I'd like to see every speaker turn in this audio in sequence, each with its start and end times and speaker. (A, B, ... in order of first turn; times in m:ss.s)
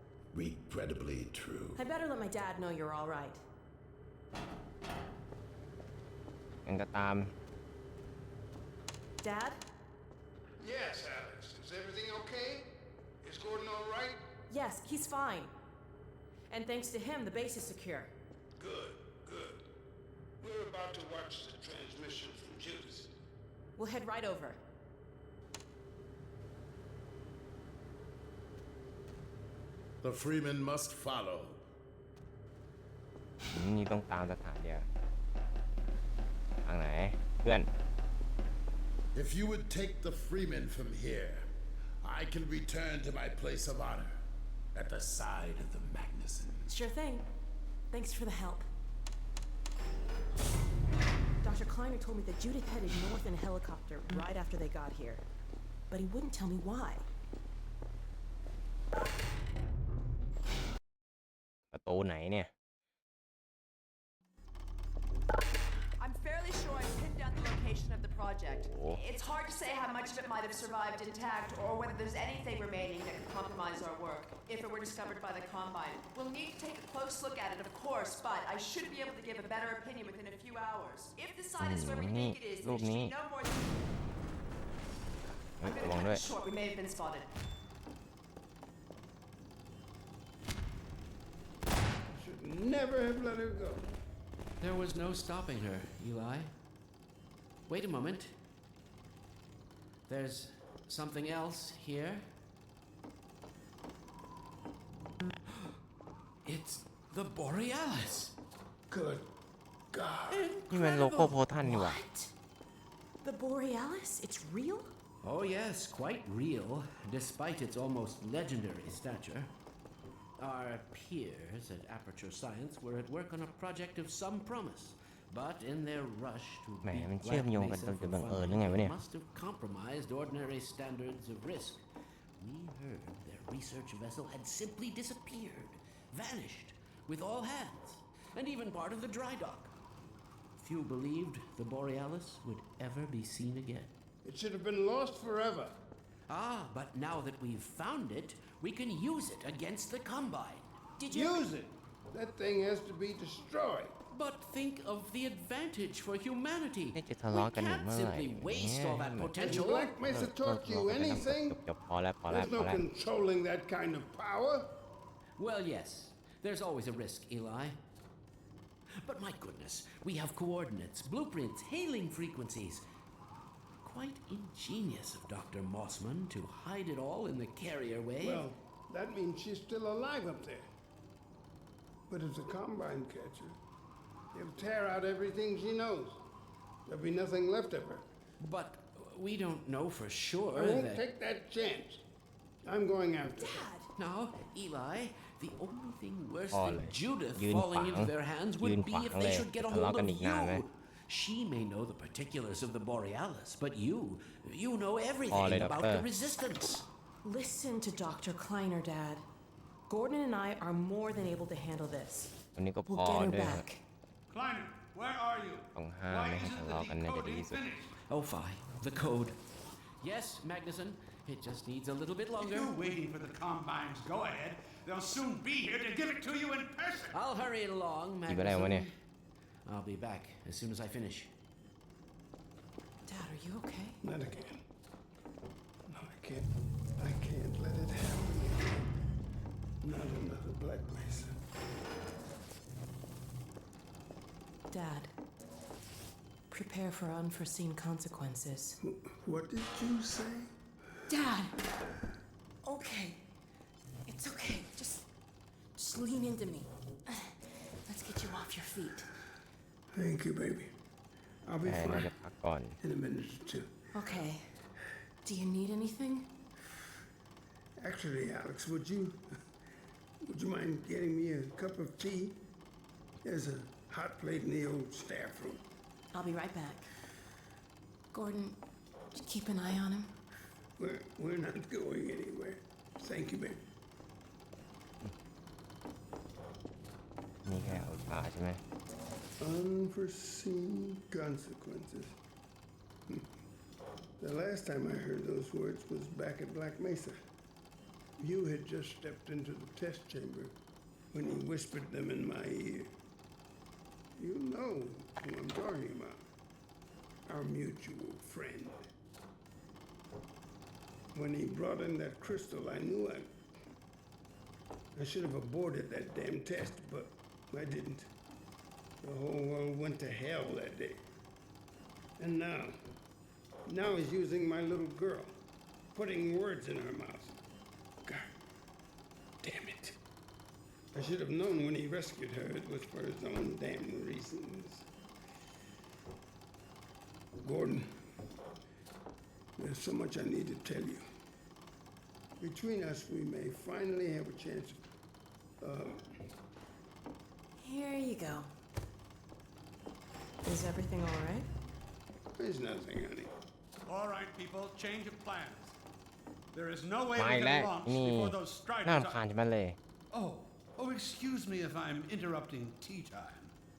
0:00.3-0:01.8 A
0:01.7-0:03.4 B
0:06.6-0:07.3 C
0:09.2-0:09.6 B
0:10.6-0:12.7 D
0:13.2-0:14.2 D
0:14.5-0:15.5 B
0:16.5-0:18.1 B
0:18.6-0:19.6 D
0:20.4-0:23.1 D
0:23.8-0:24.6 B
0:30.0-0:31.6 A
0:33.5-0:34.9 C
0:36.6-0:37.7 C
0:39.1-0:41.4 A
0:42.0-0:44.2 A
0:44.7-0:46.7 A
0:46.7-0:47.3 B
0:47.9-0:48.7 B
0:51.4-0:55.2 B
0:55.9-0:57.0 B
1:01.7-1:02.5 C
1:06.0-1:23.6 E
1:08.7-1:09.0 C
1:21.6-1:23.1 C
1:25.6-1:26.2 C
1:25.6-1:27.3 E
1:32.1-1:33.9 D
1:34.6-1:36.5 F
1:37.7-1:38.3 F
1:40.1-1:42.2 F
1:46.4-1:48.3 F
1:48.9-1:49.2 D
1:49.9-1:50.5 D
1:50.3-1:51.4 F
1:50.7-1:52.0 C
1:51.6-1:52.3 B
1:53.2-1:54.9 B
1:55.2-1:59.5 F
2:00.4-2:11.8 F
2:06.8-2:08.9 C
2:12.4-2:19.7 F
2:20.6-2:23.9 F
2:24.2-2:25.8 D
2:26.3-2:30.7 F
2:31.0-2:31.5 B
2:31.1-2:33.9 D
2:34.1-2:40.0 F
2:36.9-2:39.5 C
2:39.4-2:41.6 D
2:40.1-2:42.8 C
2:42.3-2:44.8 D
2:45.4-2:47.8 F
2:49.0-2:52.8 F
2:53.8-2:58.4 F
2:58.2-3:00.7 D
3:02.1-3:03.6 D
3:04.3-3:06.2 D
3:06.9-3:08.0 D
3:08.4-3:11.0 F
3:10.5-3:12.0 D
3:12.6-3:13.7 D
3:13.3-3:13.9 B
3:14.0-3:26.8 F
3:16.5-3:20.6 C
3:25.3-3:26.1 C
3:27.2-3:29.2 B
3:29.9-3:33.8 B
3:32.6-3:33.6 C
3:34.3-3:38.0 G
3:35.8-3:37.6 C
3:38.1-3:39.3 F
3:40.0-3:42.7 F
3:42.4-3:47.1 G
3:47.1-3:48.9 F
3:48.3-3:48.9 C
3:49.6-3:51.3 F
3:53.0-3:54.0 B
3:54.0-3:54.6 D
3:55.9-3:56.4 D
3:57.0-3:58.9 D
3:59.8-4:01.4 D
4:04.7-4:05.1 B
4:06.5-4:08.8 B
4:08.8-4:10.5 D
4:11.1-4:11.6 B
4:12.6-4:13.2 B
4:14.1-4:15.1 B
4:15.8-4:19.1 B
4:19.9-4:20.7 D
4:21.4-4:22.1 D
4:21.6-4:22.8 C
4:22.8-4:23.7 D
4:23.9-4:24.5 B
4:25.2-4:26.3 B
4:27.8-4:29.2 D
4:30.2-4:32.4 D
4:33.2-4:35.6 D
4:36.1-4:36.9 B
4:38.1-4:38.6 B
4:39.1-4:40.1 B
4:40.8-4:43.6 D
4:47.4-4:48.6 C
4:49.4-4:52.1 D
4:54.2-4:57.2 D
4:58.2-5:00.5 D
5:01.1-5:02.9 D
5:04.2-5:06.2 D
5:07.3-5:08.8 D
5:11.1-5:13.3 D
5:14.9-5:18.1 D
5:19.0-5:21.0 D
5:22.2-5:22.8 D
5:23.6-5:25.3 D
5:25.9-5:27.4 D
5:29.4-5:30.0 D
5:30.9-5:34.9 D
5:37.4-5:37.9 D
5:39.6-5:41.0 D
5:42.4-5:44.8 D
5:45.6-5:46.2 D
5:47.6-5:48.5 B
5:50.4-5:51.5 B
5:52.4-5:53.3 D
5:53.8-5:55.8 G
5:56.5-5:59.2 G
5:57.2-5:59.8 C
6:00.1-6:03.5 G